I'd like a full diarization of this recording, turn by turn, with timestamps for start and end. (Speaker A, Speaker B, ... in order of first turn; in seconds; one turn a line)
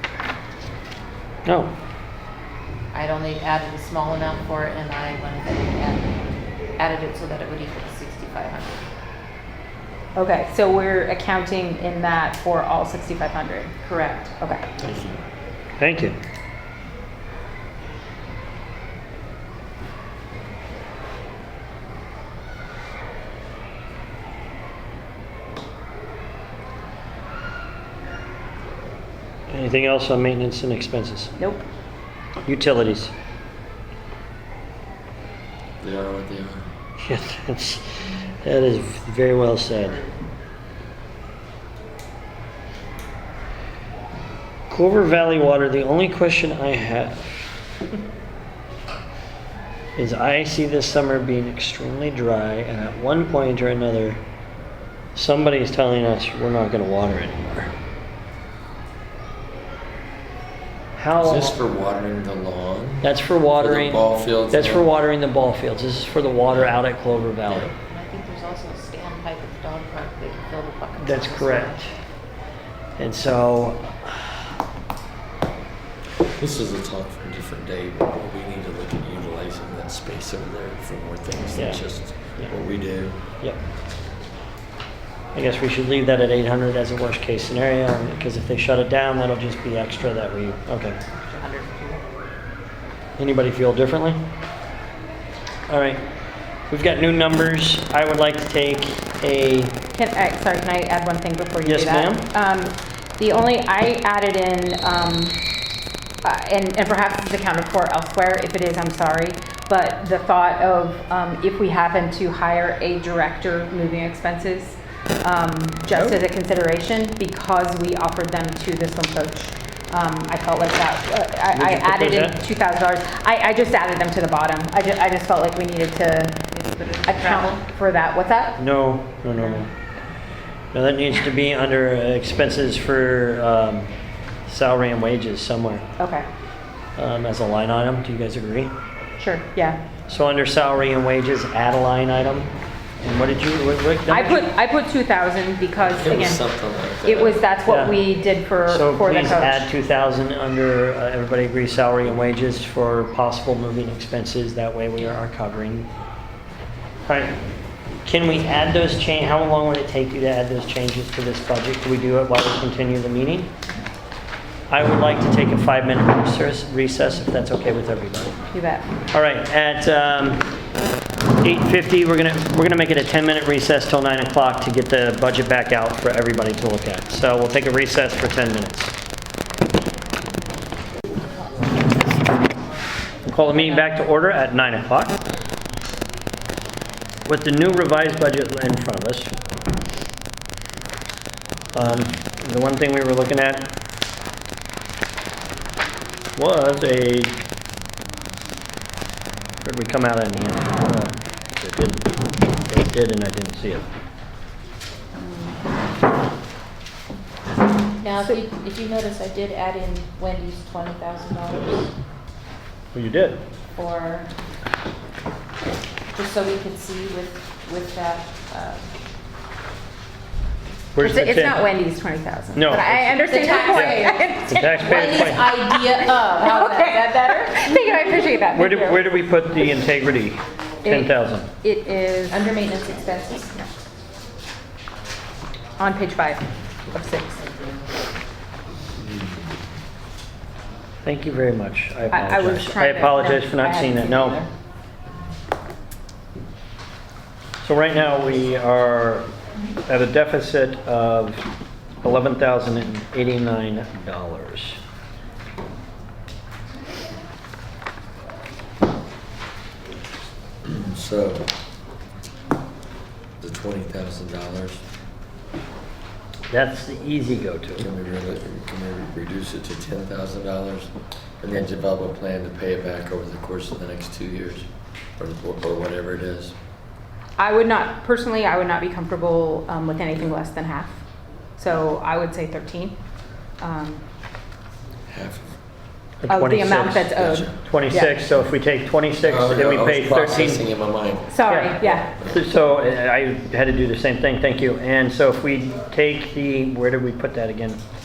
Speaker A: 1.4-1.7
Speaker B: 2.9-6.2
Speaker B: 6.8-8.8
Speaker C: 10.1-13.7
Speaker B: 13.8-14.3
Speaker D: 14.8-15.2
Speaker A: 15.8-16.2
Speaker A: 29.5-31.3
Speaker C: 31.4-31.6
Speaker A: 32.5-33.1
Speaker D: 35.8-36.7
Speaker A: 37.0-40.0
Speaker A: 44.7-47.4
Speaker A: 50.0-54.2
Speaker A: 55.1-57.7
Speaker A: 61.0-61.5
Speaker D: 61.1-64.9
Speaker A: 63.0-67.7
Speaker D: 67.5-67.7
Speaker B: 67.9-71.8
Speaker A: 71.0-71.9
Speaker A: 73.0-74.5
Speaker D: 76.2-83.2
Speaker A: 81.5-81.8
Speaker A: 85.3-91.0
Speaker B: 91.2-92.0
Speaker A: 93.2-94.2
Speaker A: 95.7-96.0
Speaker A: 96.7-99.7
Speaker C: 99.9-105.4
Speaker A: 101.6-102.3
Speaker C: 106.2-126.4
Speaker A: 115.9-116.2
Speaker A: 121.5-122.4
Speaker B: 126.5-127.6
Speaker C: 127.0-128.6
Speaker A: 128.6-129.7
Speaker A: 130.7-133.9
Speaker A: 134.5-135.8
Speaker C: 136.0-136.3
Speaker A: 136.9-138.7
Speaker C: 139.2-139.8
Speaker A: 140.1-144.5
Speaker C: 144.1-146.5
Speaker D: 145.9-147.4
Speaker C: 147.0-149.7
Speaker A: 147.6-148.0
Speaker A: 148.7-155.9
Speaker A: 157.1-157.3
Speaker A: 158.0-163.5
Speaker A: 164.7-168.3
Speaker C: 168.5-168.9
Speaker A: 169.1-170.4
Speaker A: 171.4-178.9
Speaker B: 181.3-182.4
Speaker A: 183.3-185.2
Speaker A: 187.2-189.3
Speaker A: 191.7-193.7
Speaker A: 196.3-197.3
Speaker A: 199.6-202.1
Speaker A: 202.7-203.9
Speaker C: 205.2-205.5
Speaker B: 208.0-211.9
Speaker A: 212.9-213.4
Speaker B: 213.8-214.3
Speaker B: 216.1-218.9
Speaker A: 220.9-221.6
Speaker C: 221.0-229.1
Speaker A: 222.5-225.5
Speaker B: 223.3-228.2
Speaker A: 228.5-231.5
Speaker C: 230.8-232.4
Speaker B: 232.3-233.5
Speaker C: 235.8-237.4
Speaker A: 241.0-244.4
Speaker C: 242.1-244.5
Speaker A: 247.6-249.3
Speaker A: 249.9-251.4
Speaker A: 252.0-254.8
Speaker D: 260.6-261.5
Speaker D: 263.4-264.8
Speaker A: 266.5-267.9
Speaker D: 267.8-274.7
Speaker D: 275.2-276.5
Speaker C: 277.4-281.0
Speaker C: 281.6-283.0
Speaker C: 283.6-284.0
Speaker D: 285.1-285.5
Speaker A: 286.2-290.6
Speaker C: 286.3-288.2
Speaker D: 287.2-287.5
Speaker D: 289.2-291.4
Speaker C: 291.3-292.1
Speaker A: 291.5-297.8